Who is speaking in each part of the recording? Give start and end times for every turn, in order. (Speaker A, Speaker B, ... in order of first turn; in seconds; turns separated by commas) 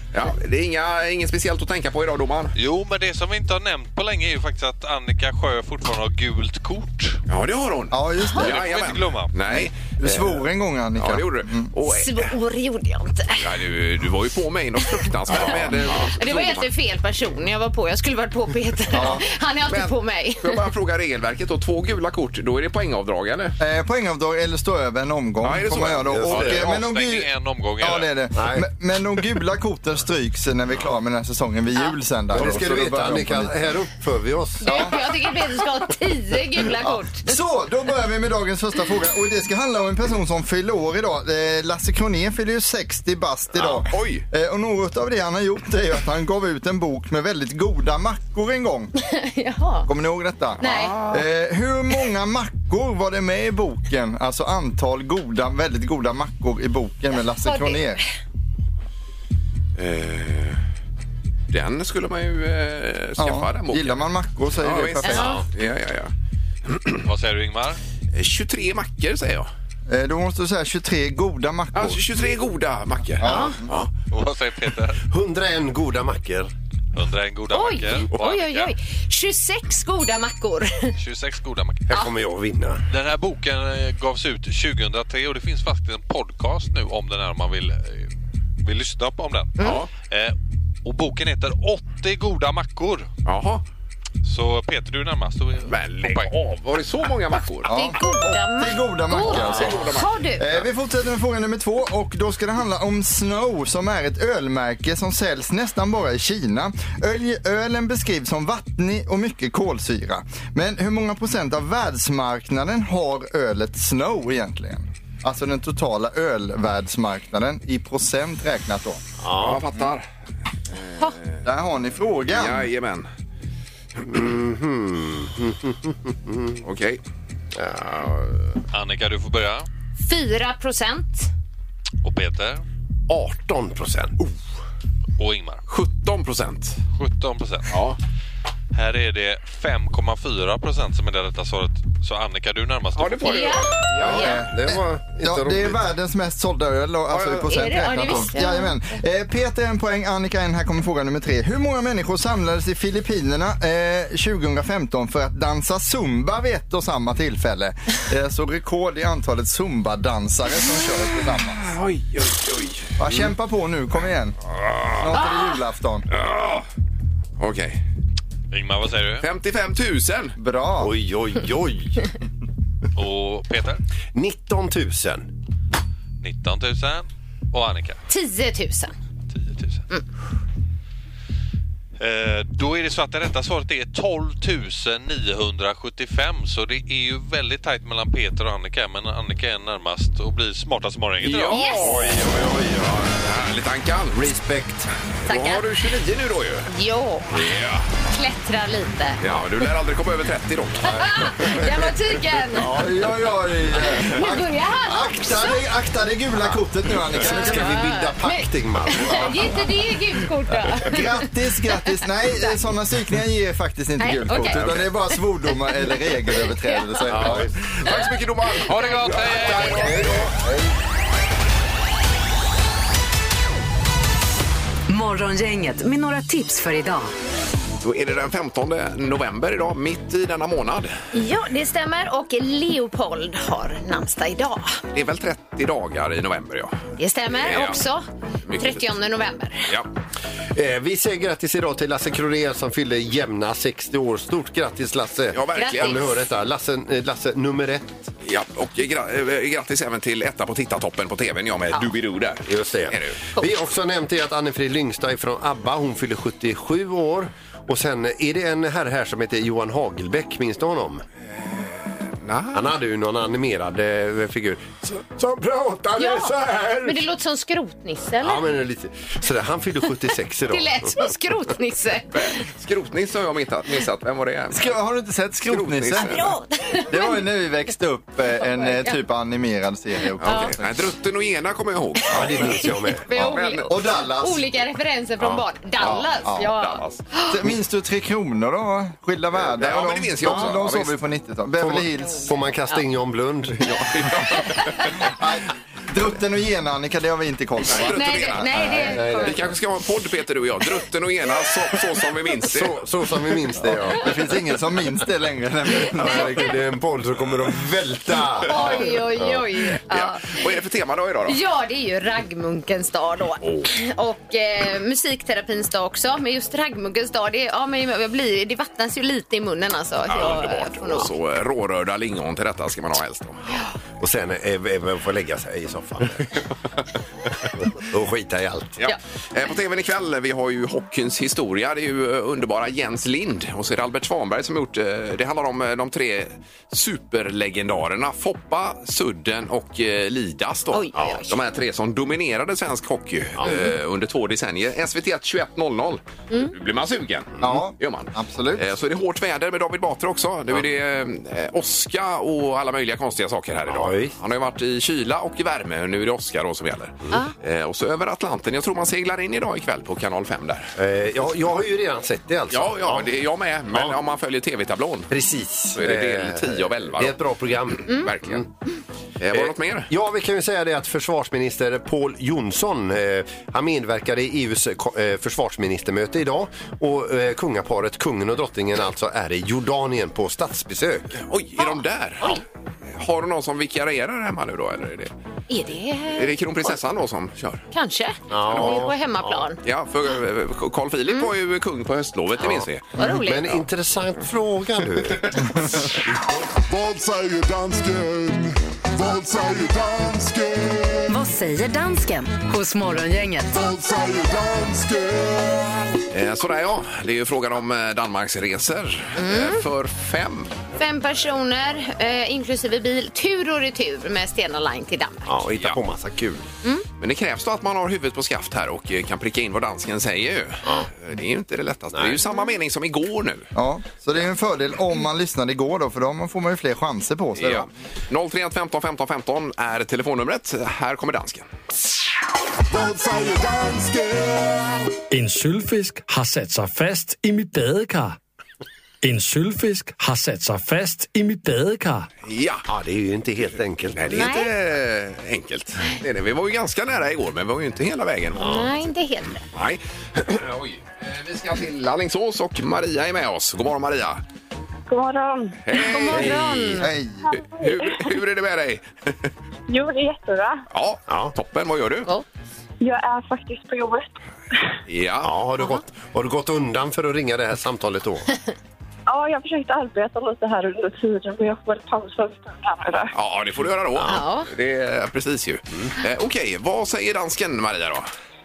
Speaker A: 0.1-2.5, Speaker B: 2.5-7.2, Speaker A: 7.3-10.4, Speaker C: 7.9-8.5, Speaker B: 8.4-9.3, Speaker C: 9.5-11.7, Speaker A: 10.9-12.3, Speaker D: 11.8-13.4, Speaker A: 13.4-16.7, Speaker D: 15.0-20.6, Speaker E: 15.3-16.1, Speaker C: 18.9-19.2, Speaker A: 19.7-23.6, Speaker C: 23.6-33.5, Speaker A: 25.4-26.3, Speaker E: 26.1-26.7, Speaker B: 26.3-28.1, Speaker E: 28.3-28.6, Speaker E: 32.3-34.9, Speaker D: 34.6-37.3, Speaker C: 34.6-34.9, Speaker C: 36.8-48.9, Speaker A: 43.6-44.2, Speaker D: 49.0-49.9, Speaker C: 49.9-58.0, Speaker D: 50.6-51.1, Speaker A: 50.6-51.2, Speaker D: 57.3-58.0, Speaker A: 59.8-60.6, Speaker A: 61.5-66.1, Speaker C: 63.2-65.3, Speaker D: 65.0-65.4, Speaker A: 66.7-67.0, Speaker B: 67.0-67.8, Speaker A: 68.1-69.5, Speaker C: 69.9-72.0, Speaker A: 71.7-73.9, Speaker C: 73.2-73.7, Speaker D: 73.3-73.5, Speaker B: 74.0-75.0, Speaker E: 75.1-76.5, Speaker B: 76.9-78.7, Speaker D: 77.5-80.9, Speaker B: 81.0-82.0, Speaker E: 81.9-82.8, Speaker B: 82.9-88.1, Speaker B: 88.6-93.1, Speaker A: 89.6-89.9, Speaker A: 93.2-93.6, Speaker B: 94.2-96.3, Speaker A: 95.7-97.7, Speaker D: 97.7-100.5, Speaker C: 97.7-119.0, Speaker A: 99.2-100.2, Speaker E: 119.2-119.6, Speaker A: 119.3-120.1, Speaker A: 120.7-121.4, Speaker C: 121.4-122.7, Speaker A: 122.3-123.1, Speaker E: 124.0-126.6, Speaker A: 126.6-127.0, Speaker E: 127.5-128.6, Speaker B: 128.7-129.7, Speaker D: 130.0-131.3, Speaker B: 132.0-132.6, Speaker E: 133.1-134.3, Speaker B: 135.2-135.6, Speaker A: 135.7-136.8, Speaker B: 136.9-137.8, Speaker A: 137.7-138.0, Speaker B: 138.7-143.6, Speaker A: 143.0-144.4, Speaker D: 143.2-144.4, Speaker E: 144.0-145.8, Speaker C: 144.0-161.6, Speaker A: 147.1-147.5, Speaker D: 147.5-148.7, Speaker A: 161.5-163.2, Speaker C: 163.0-164.3, Speaker A: 164.6-165.0, Speaker C: 164.9-166.1, Speaker D: 165.2-165.5, Speaker A: 166.1-166.6, Speaker A: 167.4-167.8, Speaker B: 168.5-169.2, Speaker A: 169.2-170.3, Speaker C: 170.4-170.9, Speaker E: 170.8-172.1, Speaker B: 172.9-173.8, Speaker E: 174.1-175.3, Speaker B: 176.2-178.0, Speaker D: 178.1-178.9, Speaker B: 179.3-179.8, Speaker B: 182.0-191.6, Speaker A: 191.2-194.3, Speaker D: 191.5-192.1, Speaker E: 192.0-192.9, Speaker E: 194.2-194.9, Speaker A: 195.3-196.7, Speaker D: 195.3-195.6, Speaker D: 196.7-197.5, Speaker A: 197.3-197.9, Speaker D: 198.1-199.2, Speaker A: 199.2-201.8, Speaker D: 200.8-202.7, Speaker C: 202.6-207.8, Speaker D: 203.8-205.6, Speaker E: 207.2-209.6, Speaker D: 207.2-212.6, Speaker C: 210.7-217.5, Speaker D: 214.0-214.6, Speaker A: 214.5-214.9, Speaker D: 215.1-215.5, Speaker D: 216.7-217.1, Speaker E: 217.1-217.5, Speaker A: 217.1-220.2, Speaker D: 218.7-219.9, Speaker B: 218.8-219.9, Speaker E: 219.6-220.7, Speaker F: 224.9-227.1, Speaker A: 227.8-230.9, Speaker D: 231.1-234.7, Speaker A: 234.9-236.7, Speaker D: 237.0-238.0, Speaker A: 237.3-237.8, Speaker A: 238.4-239.0, Speaker D: 238.6-239.7, Speaker E: 240.5-248.1, Speaker A: 245.3-246.1, Speaker D: 245.5-246.0, Speaker A: 248.2-253.2, Speaker E: 252.4-261.0, Speaker A: 262.2-262.7, Speaker E: 262.5-267.0, Speaker D: 265.9-266.3, Speaker D: 266.8-268.4, Speaker E: 268.2-271.1, Speaker D: 270.5-272.4, Speaker A: 272.1-274.7, Speaker C: 274.5-276.2, Speaker A: 275.5-276.2, Speaker D: 276.0-277.2, Speaker C: 276.9-280.8, Speaker D: 278.4-279.0, Speaker A: 280.2-283.7, Speaker D: 280.2-280.5, Speaker E: 282.1-283.1, Speaker D: 282.2-287.4, Speaker C: 283.6-284.4, Speaker C: 285.8-286.5, Speaker A: 286.4-287.0, Speaker C: 287.3-292.3, Speaker A: 289.4-290.9, Speaker E: 291.6-293.7, Speaker D: 292.0-292.8, Speaker A: 293.6-294.9, Speaker D: 294.4-294.9, Speaker C: 295.0-298.4, Speaker A: 297.6-298.5, Speaker D: 297.9-299.4, Speaker E: 298.5-299.5, Speaker A: 299.0-302.8, Speaker E: 302.4-304.1, Speaker C: 303.9-306.5, Speaker D: 305.8-306.5, Speaker E: 305.9-308.9, Speaker D: 308.4-310.4, Speaker A: 308.5-308.9, Speaker A: 309.8-311.4, Speaker D: 311.3-321.1, Speaker A: 313.4-313.7, Speaker A: 320.1-323.4, Speaker E: 324.0-326.4, Speaker E: 327.6-328.8, Speaker A: 328.8-360.7, Speaker D: 340.7-341.3, Speaker E: 340.9-341.2, Speaker E: 343.4-343.7, Speaker C: 347.4-348.7, Speaker E: 353.7-354.1, Speaker E: 360.8-363.1, Speaker A: 362.5-365.1, Speaker E: 365.1-368.5, Speaker A: 365.7-367.2, Speaker A: 367.8-368.4, Speaker A: 369.2-369.9, Speaker E: 369.3-381.1, Speaker A: 381.1-382.4, Speaker D: 381.6-382.4, Speaker A: 382.9-385.1, Speaker D: 385.5-386.7, Speaker A: 386.1-387.6, Speaker D: 387.7-389.6, Speaker E: 388.3-389.5, Speaker A: 388.5-388.8, Speaker A: 389.6-392.9, Speaker D: 392.9-393.5, Speaker E: 393.0-395.5, Speaker G: 396.4-401.1, Speaker F: 401.1-403.5, Speaker G: 403.5-405.8, Speaker A: 406.1-410.6, Speaker D: 409.1-409.6, Speaker D: 410.8-415.3, Speaker E: 415.2-416.4, Speaker A: 417.0-423.5, Speaker C: 423.5-427.7, Speaker A: 427.4-431.4, Speaker G: 432.7-434.8, Speaker H: 435.1-438.2, Speaker H: 439.0-442.1, Speaker A: 442.2-442.6, Speaker E: 442.7-444.3, Speaker A: 443.9-448.5, Speaker D: 444.1-444.5, Speaker E: 448.4-448.7, Speaker D: 448.4-449.4, Speaker A: 449.5-454.2, Speaker I: 454.9-455.6, Speaker A: 455.6-456.8, Speaker D: 455.7-456.9, Speaker E: 456.1-456.4, Speaker C: 456.8-457.2, Speaker I: 457.2-458.1, Speaker A: 457.3-459.3, Speaker I: 459.7-460.6, Speaker A: 460.7-462.1, Speaker E: 461.1-461.3, Speaker I: 462.8-464.1, Speaker A: 464.9-465.3, Speaker E: 465.2-468.3, Speaker I: 469.1-473.1, Speaker A: 473.1-478.1, Speaker D: 474.1-474.5